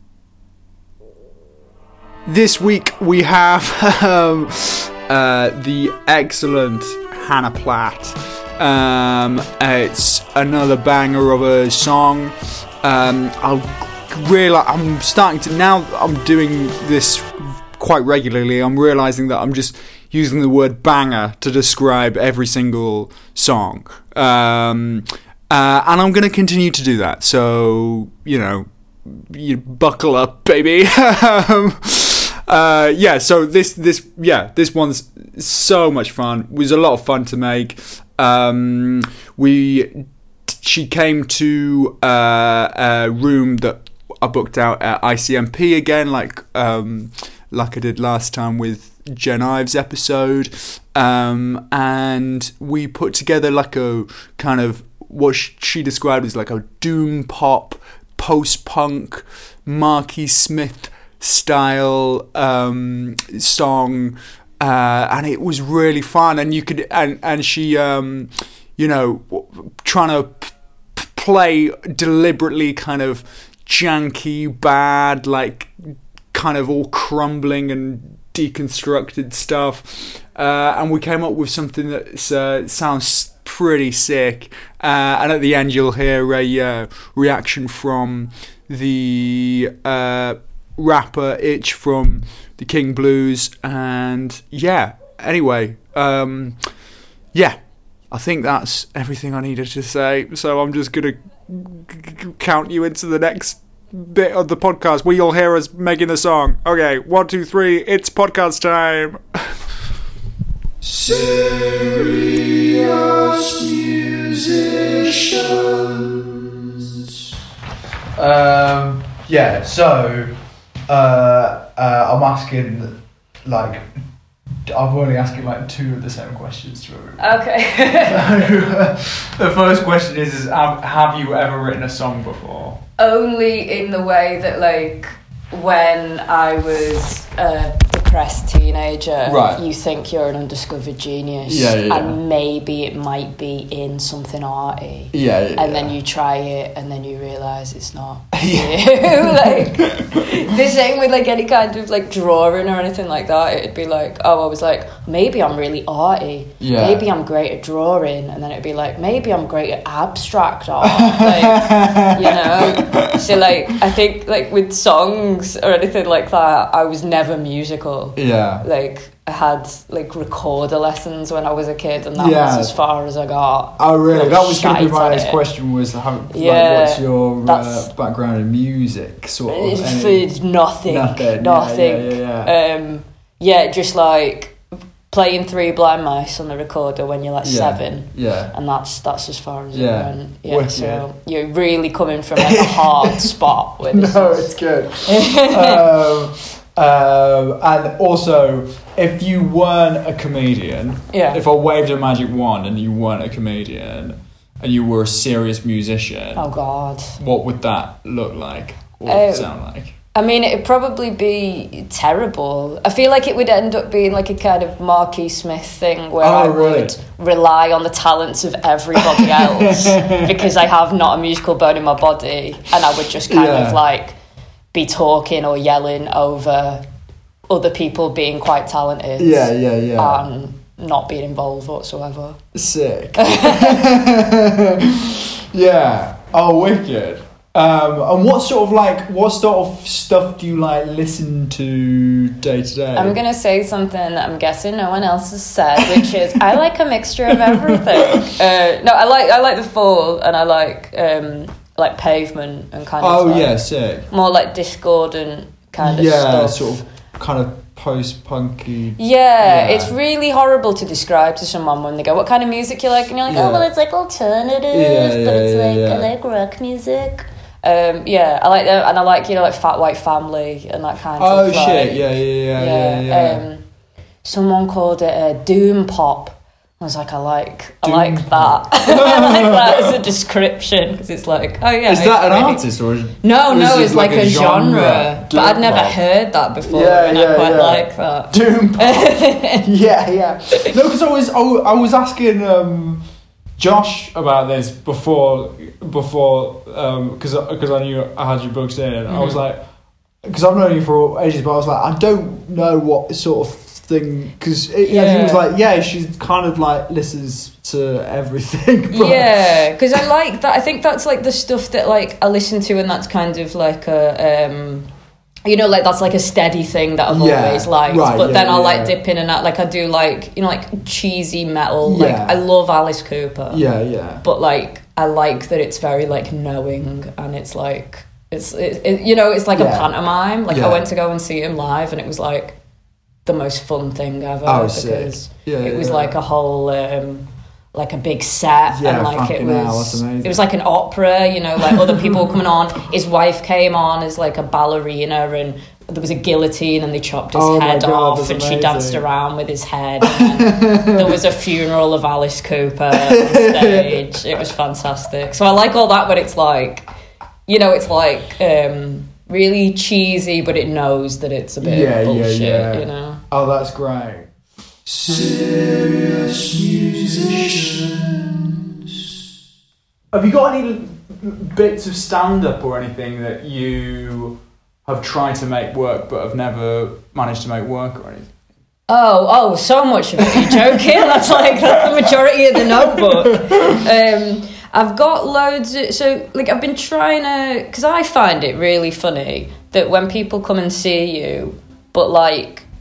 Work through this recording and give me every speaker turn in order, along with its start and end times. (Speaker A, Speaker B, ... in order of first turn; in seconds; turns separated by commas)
Speaker A: 2.2-96.7, Speaker A: 97.3-97.6, Speaker A: 98.1-109.6, Speaker A: 110.8-117.0, Speaker A: 118.2-120.3, Speaker A: 120.9-123.9, Speaker A: 124.7-127.2, Speaker B: 127.2-128.5, Speaker A: 128.1-132.8, Speaker B: 133.0-175.4, Speaker A: 139.2-139.6, Speaker A: 141.4-142.2, Speaker A: 145.1-145.9, Speaker A: 148.3-150.2, Speaker A: 156.6-157.1, Speaker A: 160.8-163.3, Speaker A: 168.2-168.7, Speaker A: 172.1-172.7, Speaker A: 173.8-180.3, Speaker B: 176.3-177.9, Speaker B: 179.5-184.6, Speaker A: 180.9-182.5, Speaker B: 185.1-195.8, Speaker A: 187.4-188.5, Speaker A: 189.7-191.1, Speaker A: 192.4-193.3, Speaker A: 193.9-206.4, Speaker B: 201.1-201.4, Speaker B: 206.4-207.2, Speaker A: 207.2-209.9, Speaker B: 209.1-209.5, Speaker B: 210.1-224.2, Speaker A: 216.2-216.9, Speaker A: 219.0-220.2, Speaker A: 223.3-223.8, Speaker B: 224.7-226.8, Speaker B: 227.5-232.4, Speaker A: 229.2-230.2, Speaker A: 232.5-243.2, Speaker B: 233.2-233.8, Speaker B: 242.9-256.8, Speaker A: 245.8-246.1, Speaker A: 247.3-248.3, Speaker A: 253.0-254.1, Speaker A: 255.8-259.9, Speaker B: 259.0-273.6, Speaker A: 263.3-263.7, Speaker A: 264.7-266.1, Speaker A: 271.2-273.4, Speaker B: 274.2-282.6, Speaker A: 277.8-279.9, Speaker A: 281.9-286.0, Speaker B: 283.2-289.7, Speaker A: 286.6-293.0, Speaker A: 293.6-299.6, Speaker B: 299.1-299.4, Speaker A: 300.2-310.0, Speaker B: 304.8-305.4, Speaker B: 308.9-314.9, Speaker B: 315.4-323.6, Speaker A: 317.1-318.9, Speaker A: 321.8-322.4, Speaker A: 323.5-324.2, Speaker B: 324.2-332.6, Speaker A: 329.6-329.9, Speaker A: 330.5-330.8, Speaker B: 333.2-356.9, Speaker A: 334.4-336.1, Speaker A: 338.7-340.4, Speaker A: 341.6-342.1, Speaker A: 347.3-349.0, Speaker A: 350.1-351.2, Speaker A: 352.9-354.1, Speaker B: 357.5-363.2, Speaker A: 361.6-364.3, Speaker A: 364.8-368.8, Speaker A: 370.1-378.3, Speaker B: 378.9-392.6, Speaker A: 380.4-383.7